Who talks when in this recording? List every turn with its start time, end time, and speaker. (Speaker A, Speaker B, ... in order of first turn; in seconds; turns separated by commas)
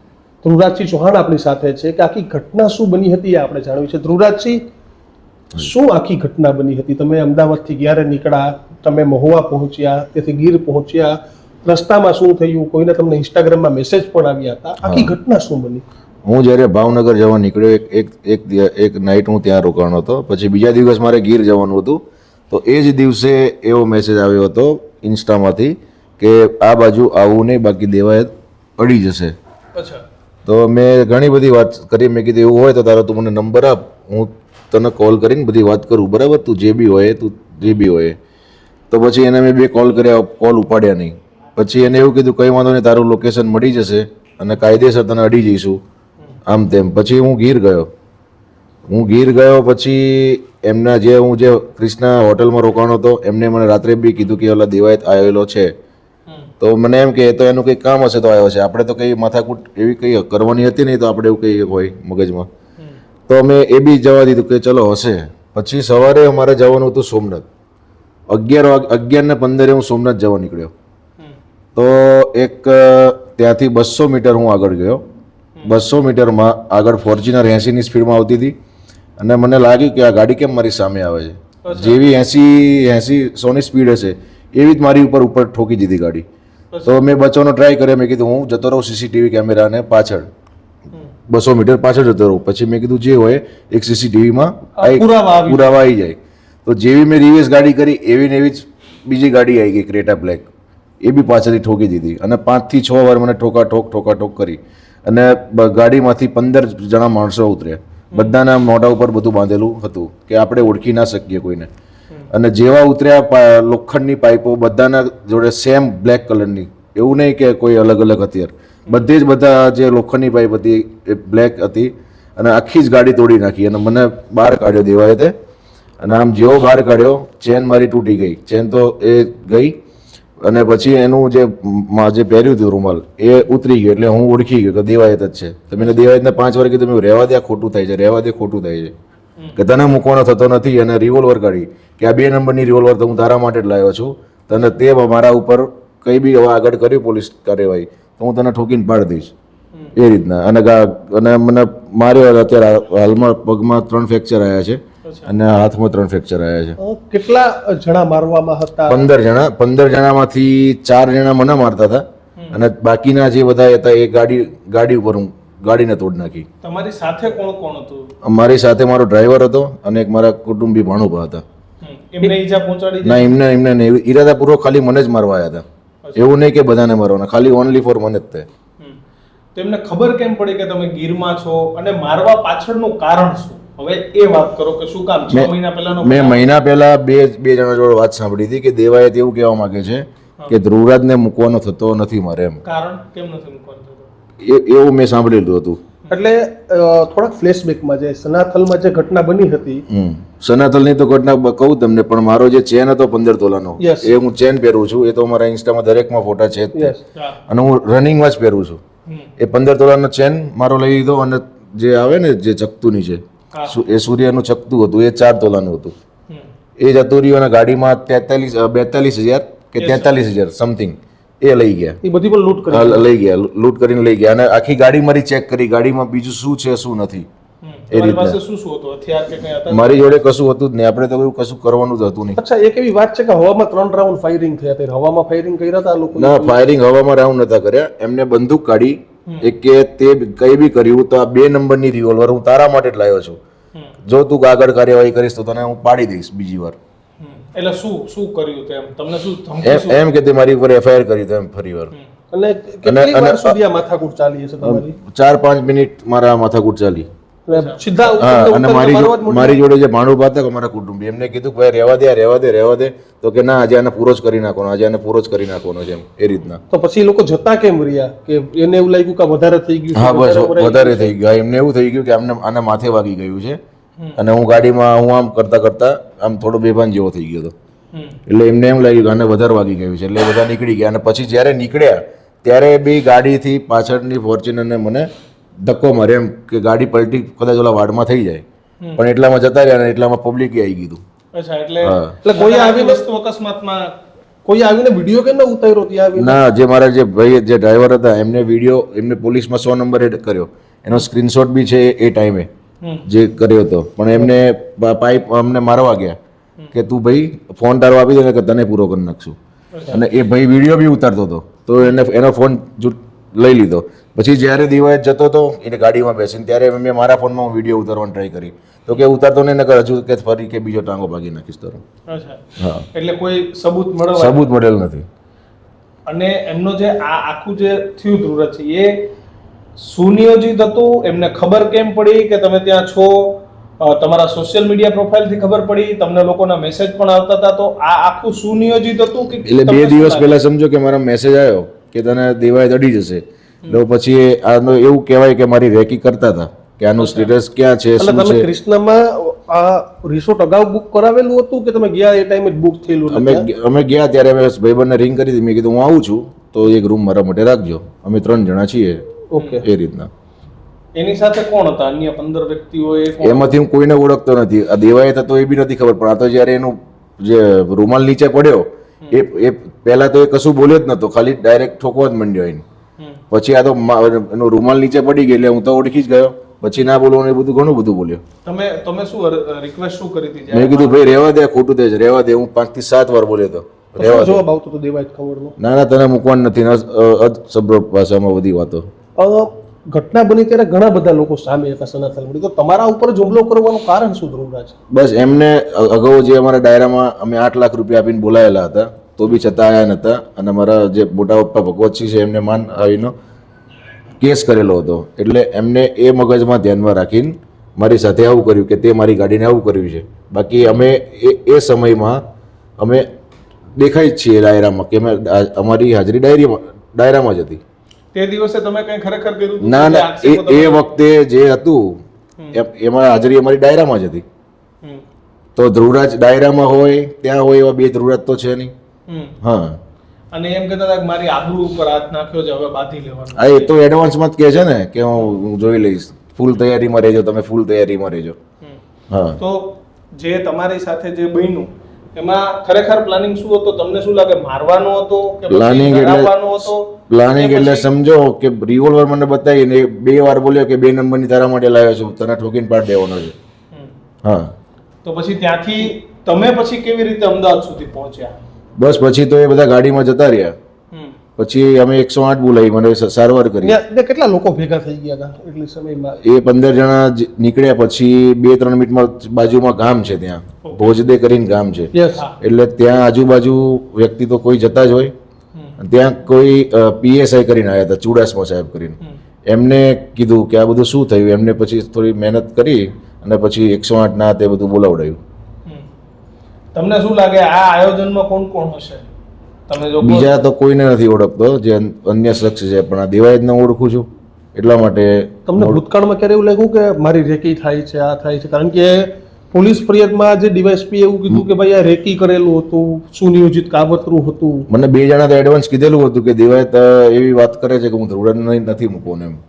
Speaker A: 0.4-4.6, Speaker A: 5.6-15.8, Speaker B: 14.8-15.1, Speaker B: 16.2-29.4, Speaker C: 29.7-30.0, Speaker B: 30.4-38.2, Speaker B: 38.9-45.8, Speaker B: 46.5-47.9, Speaker B: 48.9-55.7, Speaker B: 56.6-62.5, Speaker B: 63.3-67.5, Speaker B: 68.3-70.7, Speaker B: 71.8-75.0, Speaker B: 75.6-78.5, Speaker B: 79.2-86.2, Speaker C: 81.6-82.0, Speaker B: 86.8-90.3, Speaker B: 91.3-100.5, Speaker A: 94.8-95.7, Speaker B: 101.0-111.7, Speaker B: 112.3-125.3, Speaker B: 126.0-129.8, Speaker B: 130.4-138.9, Speaker B: 139.5-149.3, Speaker B: 149.9-156.8, Speaker C: 155.0-155.3, Speaker A: 156.8-159.1, Speaker B: 158.9-166.4, Speaker C: 162.4-162.6, Speaker C: 166.6-168.1, Speaker B: 168.2-171.4, Speaker C: 171.8-173.4, Speaker B: 173.0-178.5, Speaker C: 179.5-186.4, Speaker B: 185.3-192.6, Speaker C: 192.6-194.1, Speaker B: 194.4-195.8, Speaker A: 196.1-199.8, Speaker B: 199.9-206.9, Speaker A: 203.8-204.1, Speaker A: 206.7-207.0, Speaker C: 207.1-207.4, Speaker B: 207.5-208.8, Speaker B: 209.4-215.9, Speaker B: 216.8-222.0, Speaker C: 219.8-220.1, Speaker A: 222.0-223.1, Speaker B: 222.7-227.3, Speaker C: 227.6-230.1, Speaker B: 227.9-228.4, Speaker B: 229.7-232.4, Speaker A: 232.3-236.6, Speaker B: 236.1-243.4, Speaker B: 244.0-246.8, Speaker C: 247.2-250.1, Speaker B: 249.6-251.9, Speaker A: 252.3-254.9, Speaker B: 252.8-253.6, Speaker B: 254.6-257.1, Speaker A: 257.5-259.6, Speaker C: 257.5-257.8, Speaker B: 258.0-266.6, Speaker A: 266.7-271.1, Speaker B: 269.9-273.6, Speaker B: 274.1-277.5, Speaker C: 277.9-278.2, Speaker B: 278.3-285.1, Speaker B: 285.6-288.4, Speaker B: 288.9-291.0, Speaker C: 291.3-294.0, Speaker B: 291.8-292.2, Speaker A: 292.2-293.0, Speaker A: 294.4-296.4, Speaker B: 296.1-302.5, Speaker C: 302.8-303.1, Speaker B: 303.1-306.2, Speaker B: 306.7-309.4, Speaker C: 309.7-310.0, Speaker B: 309.9-321.8, Speaker C: 322.1-324.5, Speaker B: 322.6-322.9, Speaker B: 324.1-325.1, Speaker C: 326.1-329.1, Speaker C: 329.8-340.4, Speaker B: 339.4-348.5, Speaker C: 347.0-347.3, Speaker A: 348.0-353.5, Speaker B: 353.1-359.1, Speaker A: 359.3-359.6, Speaker C: 359.4-359.6, Speaker B: 359.6-360.1, Speaker C: 360.9-363.5, Speaker B: 363.2-372.6, Speaker B: 373.3-378.2, Speaker C: 378.4-381.1, Speaker B: 380.5-384.4, Speaker A: 384.0-385.5, Speaker B: 385.6-388.9, Speaker A: 389.2-394.7, Speaker B: 394.9-403.1, Speaker B: 404.2-412.2, Speaker C: 410.6-410.8, Speaker B: 412.8-413.1, Speaker B: 413.8-417.6, Speaker C: 418.1-420.9, Speaker B: 419.6-424.2, Speaker B: 425.6-428.7, Speaker C: 429.1-429.4, Speaker B: 429.4-429.8, Speaker C: 430.3-433.7, Speaker B: 433.3-438.4, Speaker B: 439.1-439.4, Speaker C: 439.4-447.9, Speaker B: 445.5-446.5, Speaker B: 447.1-453.3, Speaker B: 454.2-454.5, Speaker C: 455.0-458.3, Speaker B: 458.8-460.5, Speaker B: 461.4-463.8, Speaker A: 463.6-466.2, Speaker B: 466.2-475.1, Speaker C: 470.6-471.0, Speaker A: 471.9-472.2, Speaker B: 475.8-479.0, Speaker B: 479.5-485.2, Speaker C: 486.7-489.1, Speaker C: 489.7-490.3, Speaker B: 490.0-495.8, Speaker A: 495.5-504.7, Speaker B: 504.7-509.4